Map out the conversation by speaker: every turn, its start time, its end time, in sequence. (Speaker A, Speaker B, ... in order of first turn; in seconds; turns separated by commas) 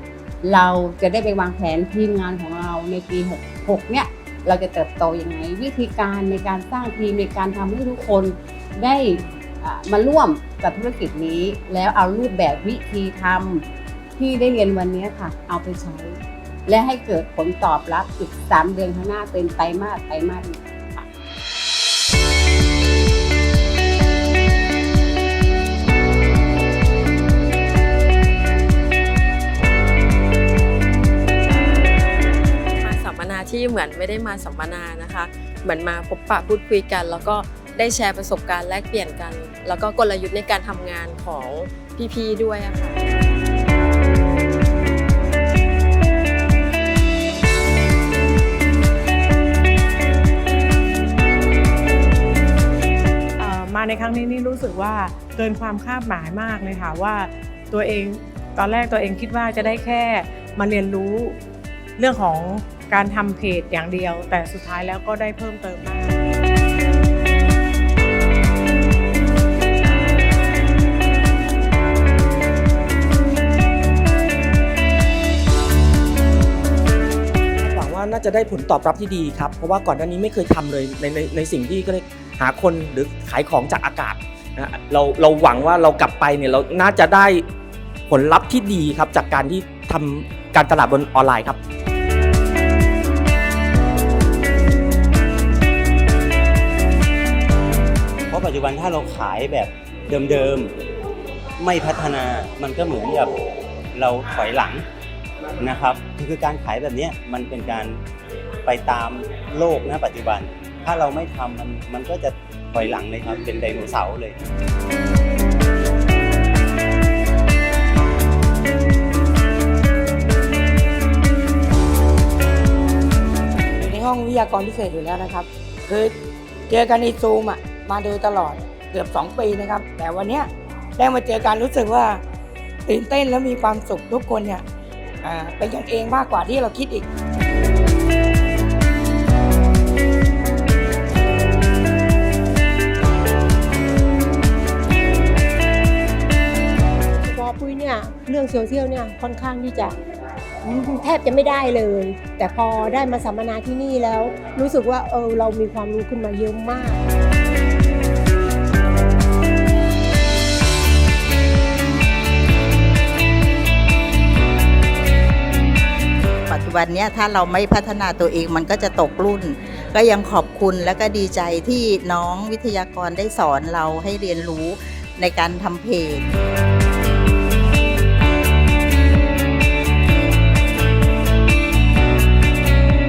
Speaker A: 0.4-21.1, Speaker B: 32.8-43.0, Speaker C: 53.4-61.4, Speaker C: 62.0-66.1, Speaker D: 77.6-87.4, Speaker D: 88.1-91.6, Speaker E: 98.3-100.7, Speaker E: 101.6-103.3, Speaker E: 103.9-104.8, Speaker E: 105.6-108.0, Speaker E: 108.6-114.3, Speaker F: 123.8-126.1, Speaker F: 126.7-132.2, Speaker F: 132.8-134.6, Speaker F: 135.2-137.1, Speaker G: 147.2-149.9, Speaker G: 150.6-157.0, Speaker H: 166.5-176.2